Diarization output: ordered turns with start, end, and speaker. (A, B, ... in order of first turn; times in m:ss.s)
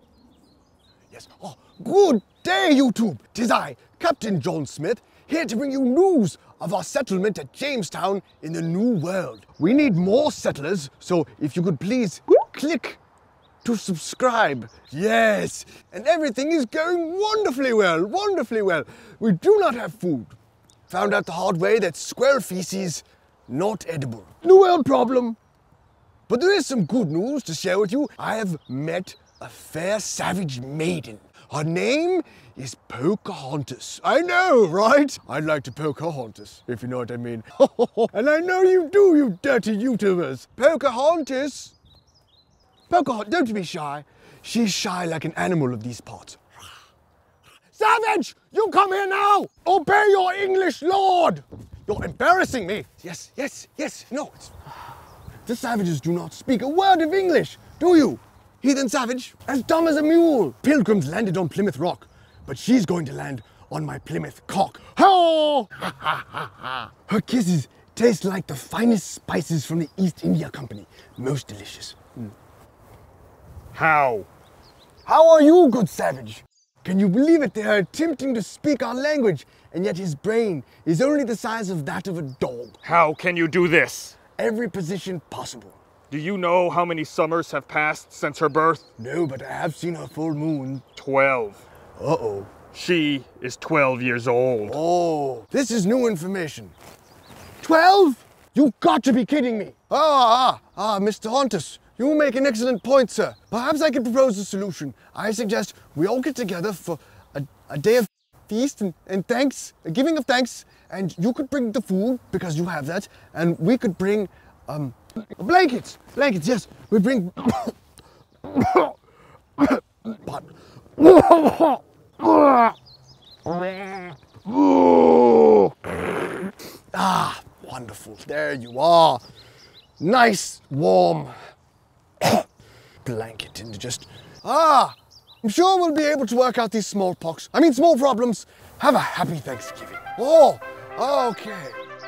0:01.1-0:13.0 A
0:13.6-0:20.4 A
0:20.9-0:25.4 A
0:26.3-0:41.7 A
0:42.9-0:46.4 A
0:47.7-0:54.5 A
0:55.4-1:12.3 A
1:13.7-1:14.3 B
1:15.0-1:22.8 A
1:22.8-1:24.2 B
1:24.3-1:25.8 A
1:26.1-1:28.8 B
1:29.0-1:30.9 A
1:31.0-1:31.6 B
1:32.0-1:32.6 A
1:32.7-1:34.8 B
1:34.6-1:36.7 A
1:37.6-1:57.8 A
1:58.4-1:58.9 A
1:59.6-2:02.7 A
2:03.4-2:05.7 A
2:06.9-2:09.2 A
2:10.0-2:11.4 A
2:13.0-2:21.8 A